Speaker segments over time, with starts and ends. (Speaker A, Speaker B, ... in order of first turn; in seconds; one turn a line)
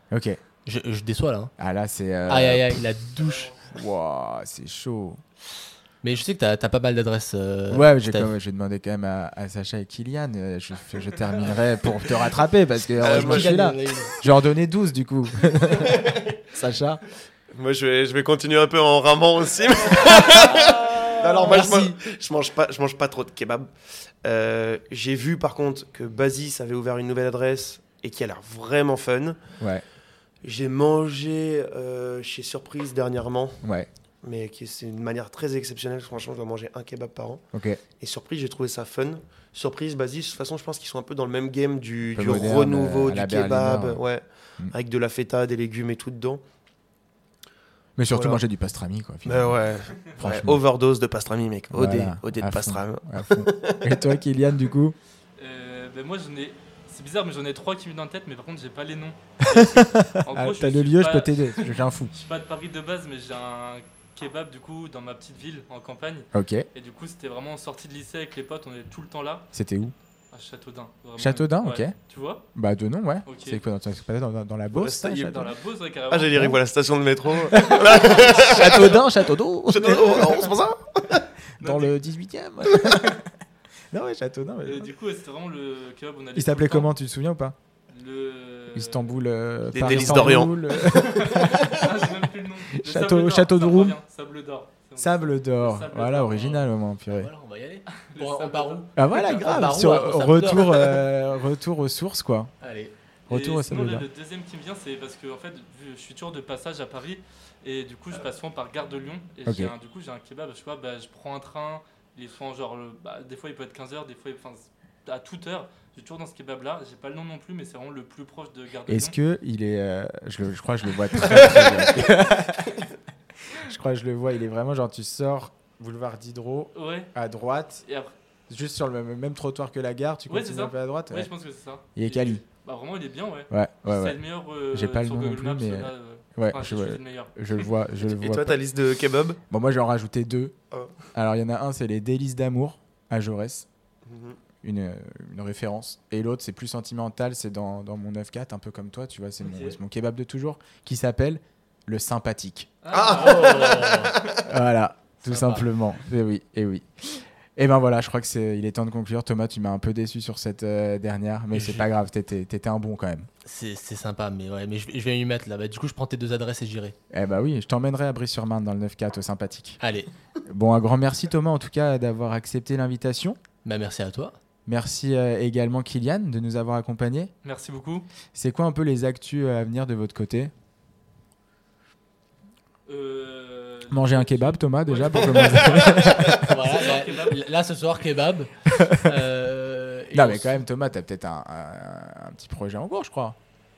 Speaker A: 0.1-0.4
Speaker B: 0.6-1.5
Speaker A: 1.6-2.9
Speaker B: 2.3-3.5
Speaker A: 3.5-5.2
Speaker B: 6.0-8.3
Speaker A: 7.7-17.0
Speaker C: 13.0-13.8
Speaker B: 13.0-14.2
Speaker C: 15.8-16.3
Speaker C: 17.5-23.7
Speaker B: 20.3-21.9
Speaker C: 24.2-29.4
Speaker A: 29.6-29.8
Speaker C: 30.4-33.6
Speaker A: 33.6-33.9
Speaker C: 34.2-37.4
Speaker A: 37.5-37.8
Speaker C: 38.0-46.4
Speaker A: 42.1-44.0
Speaker A: 48.0-49.6
Speaker C: 48.1-48.4
Speaker C: 49.2-54.1
Speaker A: 50.2-50.6
Speaker A: 51.7-55.0
Speaker D: 55.4-69.5
Speaker A: 59.5-62.1
Speaker A: 66.3-66.7
Speaker A: 69.5-69.9
Speaker D: 70.3-72.4
Speaker A: 71.2-71.9
Speaker A: 72.5-75.5
Speaker D: 73.2-73.6
Speaker C: 74.7-75.4
Speaker D: 75.1-76.6
Speaker C: 76.1-79.0
Speaker A: 77.5-80.5
Speaker C: 79.7-81.2
Speaker A: 81.6-83.3
Speaker D: 81.6-81.9
Speaker A: 83.9-84.9
Speaker D: 84.6-86.9
Speaker A: 86.3-87.5
Speaker D: 87.9-89.1
Speaker A: 88.7-91.8
Speaker C: 89.7-91.8
Speaker D: 89.9-96.7
Speaker A: 92.7-94.0
Speaker A: 95.0-97.3
Speaker B: 97.1-101.1
Speaker D: 98.0-98.9
Speaker A: 98.9-102.5
Speaker B: 102.6-102.9
Speaker A: 103.3-104.1
Speaker D: 103.3-119.1
Speaker A: 109.5-109.7
Speaker A: 118.9-122.9
Speaker A: 123.5-127.8
Speaker D: 126.7-127.1
Speaker D: 127.8-128.1
Speaker A: 128.5-131.3
Speaker D: 130.3-137.7
Speaker A: 131.9-132.4
Speaker A: 133.5-134.2
Speaker A: 134.7-138.6
Speaker C: 138.0-139.4
Speaker A: 139.5-140.5
Speaker A: 141.1-143.7
Speaker C: 144.1-144.4
Speaker A: 144.6-152.7
Speaker D: 149.4-149.8
Speaker D: 152.8-154.4
Speaker C: 152.9-154.4
Speaker B: 153.1-154.1
Speaker A: 154.4-163.3
Speaker B: 155.2-155.7
Speaker B: 161.5-161.9
Speaker B: 163.4-166.9
Speaker A: 167.1-169.8
Speaker B: 169.8-170.1
Speaker A: 170.4-173.4
Speaker B: 173.6-174.3
Speaker A: 174.7-177.3
Speaker D: 177.4-178.1
Speaker A: 178.3-180.5
Speaker D: 182.8-187.4
Speaker A: 183.9-186.6
Speaker B: 186.3-190.6
Speaker A: 188.8-189.1
Speaker A: 190.1-193.4